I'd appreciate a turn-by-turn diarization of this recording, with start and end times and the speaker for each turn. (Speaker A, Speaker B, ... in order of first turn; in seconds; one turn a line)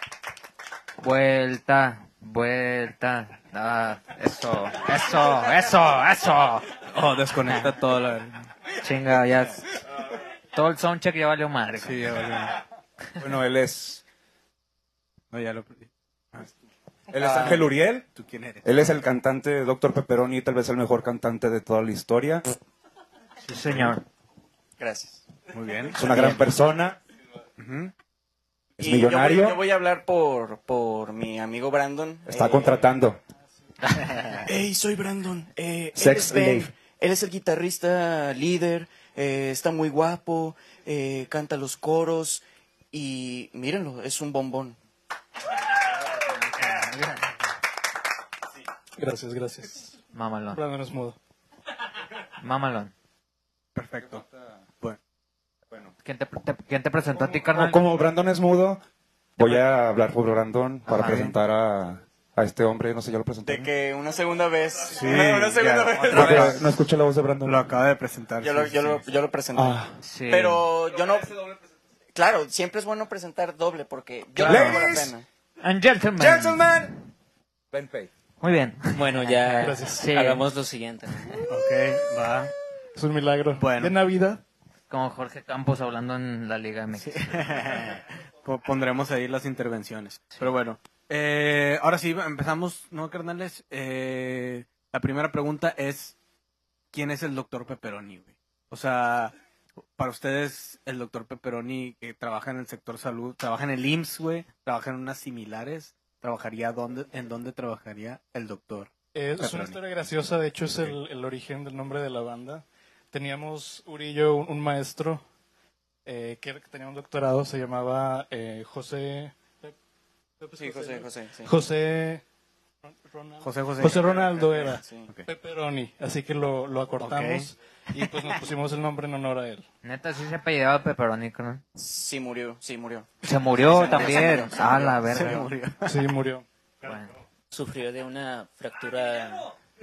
Speaker A: 1.0-6.7
Speaker B: 6.9-8.4
Speaker A: 7.5-7.8
Speaker A: 8.7-9.7
Speaker A: 10.5-12.4
Speaker B: 11.8-12.6
Speaker C: 13.2-14.0
Speaker B: 15.3-16.5
Speaker C: 17.1-18.1
Speaker D: 17.2-17.7
Speaker B: 18.1-18.7
Speaker C: 18.6-22.5
Speaker A: 23.4-24.0
Speaker C: 23.6-24.0
Speaker D: 24.8-25.2
Speaker B: 25.5-26.3
Speaker C: 25.9-27.0
Speaker A: 26.1-26.5
Speaker B: 27.6-27.9
Speaker C: 28.8-29.6
Speaker D: 28.8-32.9
Speaker C: 32.3-33.2
Speaker D: 34.5-44.8
Speaker C: 36.0-36.7
Speaker A: 46.6-47.2
Speaker E: 49.0-49.9
Speaker A: 50.1-50.6
Speaker E: 50.5-51.2
Speaker A: 52.4-52.9
Speaker B: 53.8-54.2
Speaker A: 56.0-57.9
Speaker C: 57.5-58.8
Speaker C: 59.4-63.7
Speaker A: 60.9-61.3
Speaker B: 60.9-61.3
Speaker D: 63.5-66.7
Speaker B: 64.9-66.3
Speaker A: 65.9-66.7
Speaker C: 66.1-67.7
Speaker B: 67.5-69.0
Speaker D: 68.4-71.5
Speaker C: 69.5-69.9
Speaker A: 70.0-70.7
Speaker D: 72.2-75.3
Speaker A: 74.4-74.9
Speaker C: 74.4-75.1
Speaker A: 75.6-77.0
Speaker C: 76.2-76.9
Speaker C: 77.7-78.1
Speaker A: 78.4-80.5
Speaker F: 79.0-81.4
Speaker E: 79.6-80.1
Speaker B: 81.5-82.5
Speaker E: 83.0-84.4
Speaker B: 83.6-84.0
Speaker A: 84.9-87.9
Speaker B: 87.0-96.2
Speaker B: 96.9-99.3
Speaker B: 100.0-109.8
Speaker E: 109.2-115.2
Speaker E: 116.1-119.8
Speaker E: 120.4-122.2
Speaker D: 120.6-121.5
Speaker E: 122.9-129.7
Speaker B: 123.4-124.1
Speaker D: 124.0-125.1
Speaker B: 127.0-127.5
Speaker A: 129.8-131.6
Speaker D: 131.8-135.2
Speaker A: 133.2-135.5
Speaker B: 135.0-136.0
Speaker E: 135.8-136.4
Speaker A: 136.8-137.2
Speaker F: 137.5-139.5